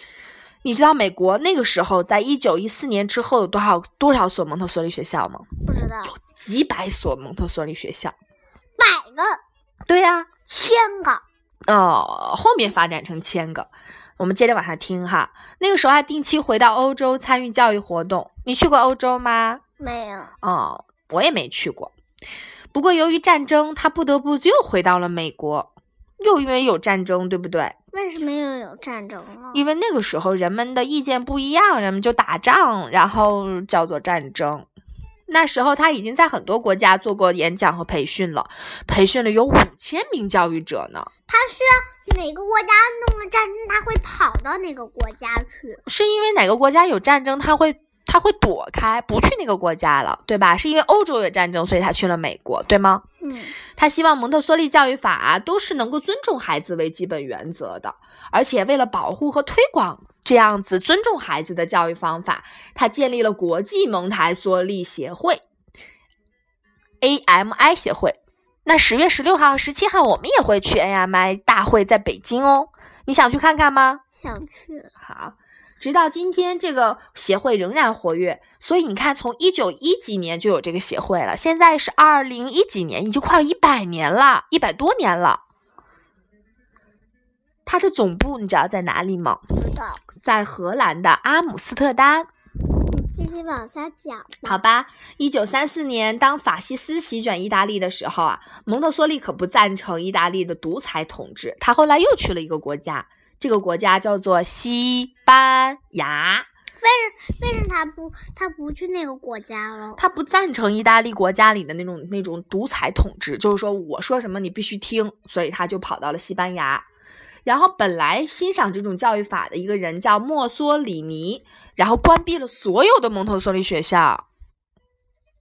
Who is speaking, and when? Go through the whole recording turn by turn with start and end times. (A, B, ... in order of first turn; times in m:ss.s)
0:00.6-0:05.5 A
0:05.7-0:06.1 B
0:06.1-0:08.2 A
0:08.8-0:09.4 B
0:09.9-0:10.3 A
0:10.5-0:11.2 B
0:11.7-0:19.6 A
0:19.8-0:20.3 B
0:20.4-0:21.9 A
0:22.7-0:27.8 A
0:27.9-0:29.6 B
0:29.5-0:34.7 A
0:35.3-0:41.1 A
0:41.3-0:45.8 B
0:45.9-0:53.0 A
0:53.2-0:53.6 B
0:53.8-1:05.4 A
1:07.0-1:14.0 A
1:14.1-1:14.9 B
1:15.0-1:25.4 A
1:27.7-1:29.4 A
1:29.6-1:30.0 B
1:30.2-1:32.3 A
1:32.8-1:34.6 B
1:34.4-1:46.5 A
1:46.8-1:50.0 B
1:50.0-1:56.8 A
1:57.4-2:04.2 A